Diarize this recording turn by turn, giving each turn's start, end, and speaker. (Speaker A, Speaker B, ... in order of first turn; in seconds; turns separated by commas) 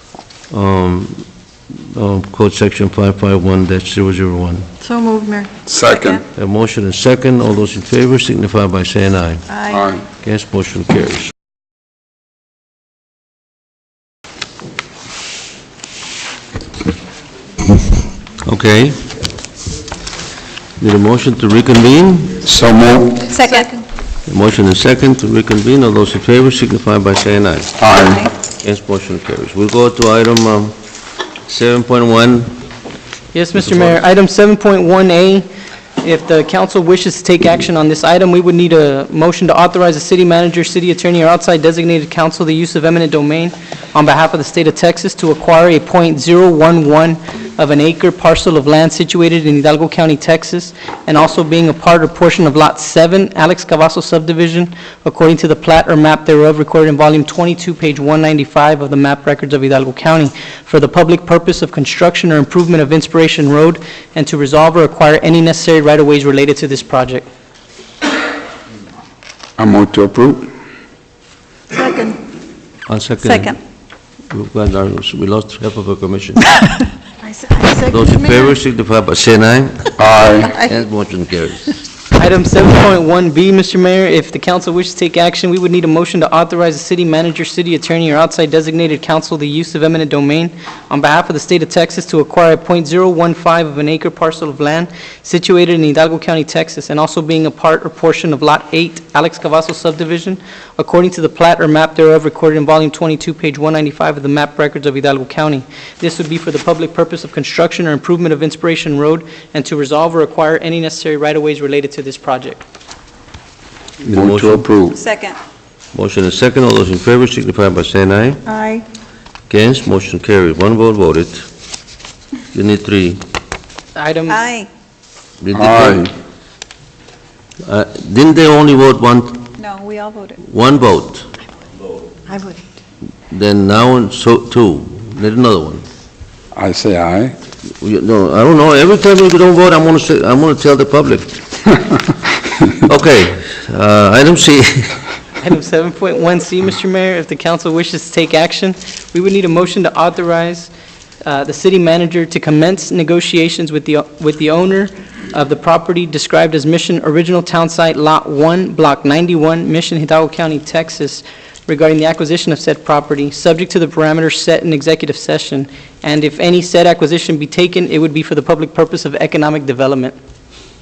Speaker A: 0.5-4.7, Speaker B: 4.8-6.2, Speaker C: 5.7-6.2, Speaker A: 6.3-9.6, Speaker C: 9.7-10.1, Speaker A: 10.2-11.3, Speaker A: 18.4-19.1, Speaker A: 20.8-22.4, Speaker C: 22.4-23.3, Speaker B: 23.3-23.8, Speaker A: 24.3-27.8, Speaker C: 27.8-28.3, Speaker A: 28.6-30.7, Speaker A: 31.4-32.5, Speaker D: 33.3-35.5, Speaker D: 36.0-67.3, Speaker C: 69.6-70.5, Speaker B: 71.7-72.2, Speaker A: 72.9-73.6, Speaker B: 73.2-73.6, Speaker A: 74.3-76.5, Speaker B: 77.2-78.2, Speaker A: 77.8-81.8, Speaker C: 80.0-80.6, Speaker D: 82.2-112.6, Speaker C: 114.0-115.0, Speaker A: 114.1-114.6, Speaker B: 115.0-115.4, Speaker A: 115.9-118.4, Speaker B: 118.5-118.8, Speaker A: 119.5-121.5, Speaker A: 122.5-123.2, Speaker D: 124.0-124.4, Speaker B: 124.3-124.7, Speaker A: 125.4-126.1, Speaker C: 125.5-126.1, Speaker A: 127.6-129.5, Speaker B: 129.6-130.4, Speaker A: 130.4-131.3, Speaker B: 132.3-132.6, Speaker A: 133.3-135.8, Speaker C: 136.5-137.3, Speaker A: 137.8-141.4, Speaker A: 142.8-145.0, Speaker D: 145.4-150.7, Speaker D: 151.2-170.1